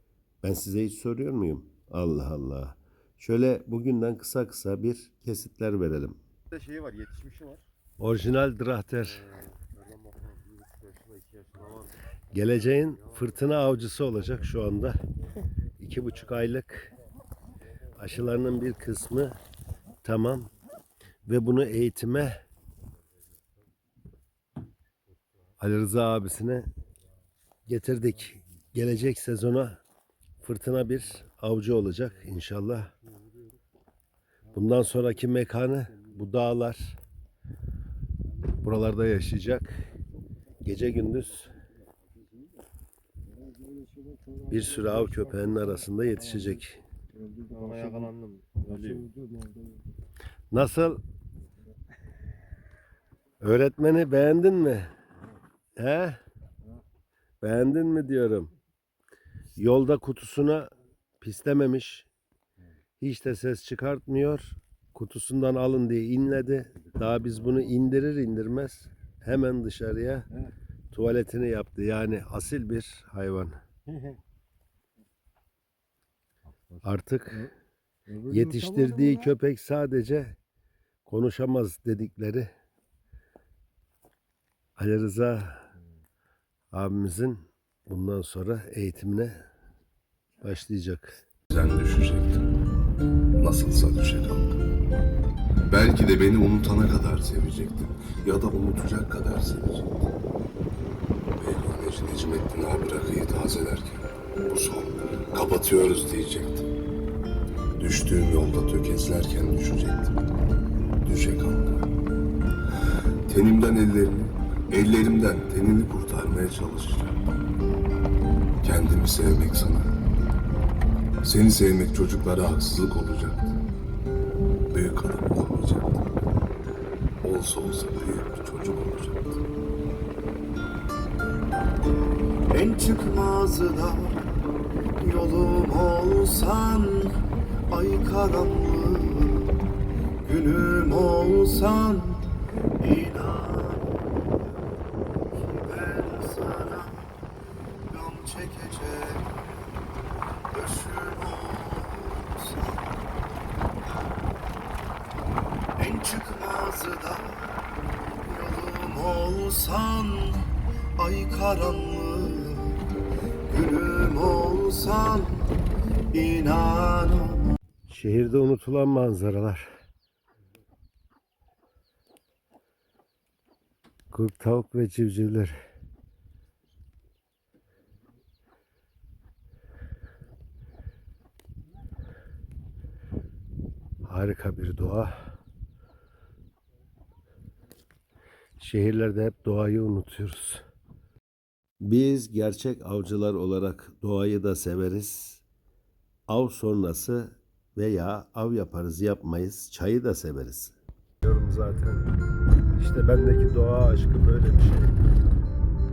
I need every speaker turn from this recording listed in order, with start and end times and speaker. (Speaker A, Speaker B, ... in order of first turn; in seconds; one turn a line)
Speaker A: 0.4-6.2
Speaker B: 6.5-7.6
Speaker A: 8.0-9.2
Speaker B: 9.5-11.9
Speaker A: 12.3-15.0
Speaker A: 15.8-16.9
Speaker A: 18.0-19.4
Speaker A: 20.0-20.5
Speaker A: 21.3-22.4
Speaker A: 25.6-26.7
Speaker A: 27.7-29.8
Speaker A: 30.4-32.9
Speaker A: 34.5-37.0
Speaker A: 38.6-39.7
Speaker A: 40.6-41.5
Speaker A: 44.5-46.8
Speaker B: 47.5-49.1
Speaker A: 50.5-51.0
Speaker A: 53.4-54.9
Speaker A: 55.8-56.2
Speaker A: 57.4-58.5
Speaker A: 59.6-60.7
Speaker A: 61.2-62.1
Speaker A: 63.0-70.3
Speaker A: 70.9-73.6
Speaker A: 76.8-77.5
Speaker A: 78.2-80.4
Speaker A: 81.0-82.5
Speaker A: 84.8-85.7
Speaker A: 86.7-89.5
Speaker A: 90.4-91.2
Speaker C: 91.5-92.5
Speaker C: 93.4-94.6
Speaker C: 95.7-100.1
Speaker C: 101.4-106.7
Speaker C: 107.8-110.2
Speaker C: 111.0-112.0
Speaker C: 112.7-117.2
Speaker C: 118.6-120.0
Speaker C: 121.2-123.5
Speaker C: 124.7-126.1
Speaker C: 127.2-129.4
Speaker D: 132.3-139.7
Speaker A: 132.7-134.0
Speaker A: 135.1-137.0
Speaker A: 137.8-138.2
Speaker D: 140.2-143.9
Speaker A: 140.6-141.5
Speaker D: 145.5-146.9
Speaker A: 145.7-146.8
Speaker D: 147.9-149.2
Speaker D: 150.5-152.8
Speaker A: 150.9-151.7
Speaker D: 155.8-157.6
Speaker A: 156.1-156.9
Speaker D: 158.2-160.4
Speaker A: 158.3-160.2
Speaker D: 161.0-163.0
Speaker A: 161.0-162.5
Speaker D: 163.5-165.6
Speaker A: 163.5-165.2
Speaker D: 166.1-167.3
Speaker A: 166.2-169.7
Speaker A: 174.1-175.6
Speaker A: 184.1-185.1
Speaker A: 188.6-190.6
Speaker A: 191.8-195.4
Speaker A: 196.3-202.1
Speaker A: 202.8-205.0